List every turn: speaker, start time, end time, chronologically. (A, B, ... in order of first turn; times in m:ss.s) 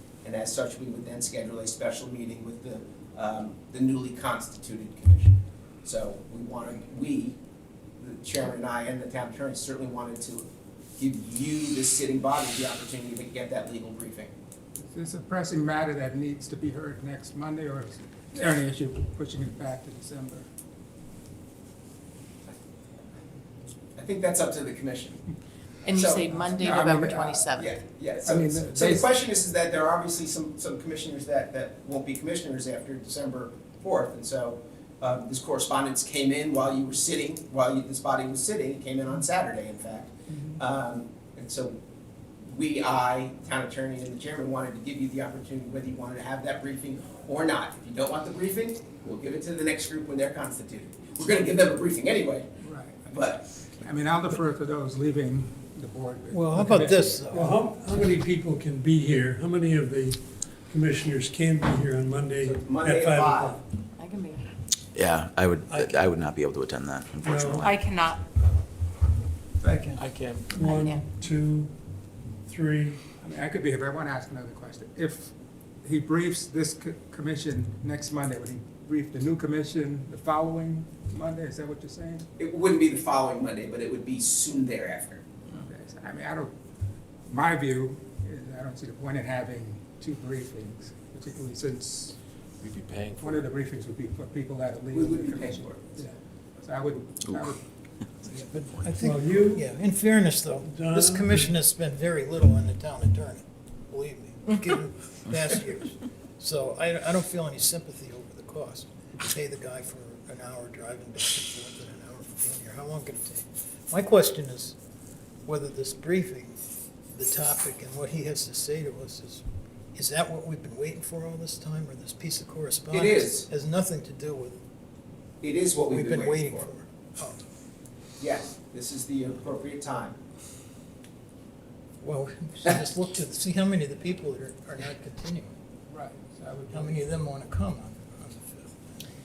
0:00.2-0:07.4 A
0:08.0-0:10.5 A
0:11.0-0:14.3 A
0:14.8-0:20.4 B
0:24.0-0:25.2 A
0:25.8-0:26.5 A
0:25.8-0:27.8 C
0:26.6-0:27.4 B
0:27.5-0:41.8 A
0:28.2-0:29.1 B
0:42.5-0:52.5 A
0:52.6-0:57.3 B
0:53.1-0:53.5 A
0:56.3-0:57.6 D
0:57.3-1:03.6 E
1:02.4-1:03.6 A
1:04.0-1:04.5 C
1:04.9-1:07.8 F
1:07.2-1:07.7 E
1:07.7-1:08.0 B
1:07.7-1:08.2 C
1:09.6-1:10.0 D
1:10.1-1:10.4 F
1:10.5-1:11.8 E
1:10.5-1:11.0 C
1:12.4-1:13.0 E
1:13.2-1:22.3 B
1:22.4-1:25.2 A
1:25.5-1:26.5 B
1:27.3-1:32.2 B
1:33.0-1:33.2 F
1:33.1-1:37.6 B
1:34.9-1:36.0 A
1:38.2-1:54.8 D
1:39.0-1:39.7 E
1:40.6-1:41.5 E
1:55.4-1:56.6 D
1:57.1-1:59.4 D
1:59.9-2:04.6 D
2:02.9-2:03.5 A
2:05.4-2:06.7 A
2:05.9-2:07.4 D
2:08.2-2:10.2 A
2:12.0-2:15.5 D
2:15.9-2:17.0 B
2:16.7-2:18.9 D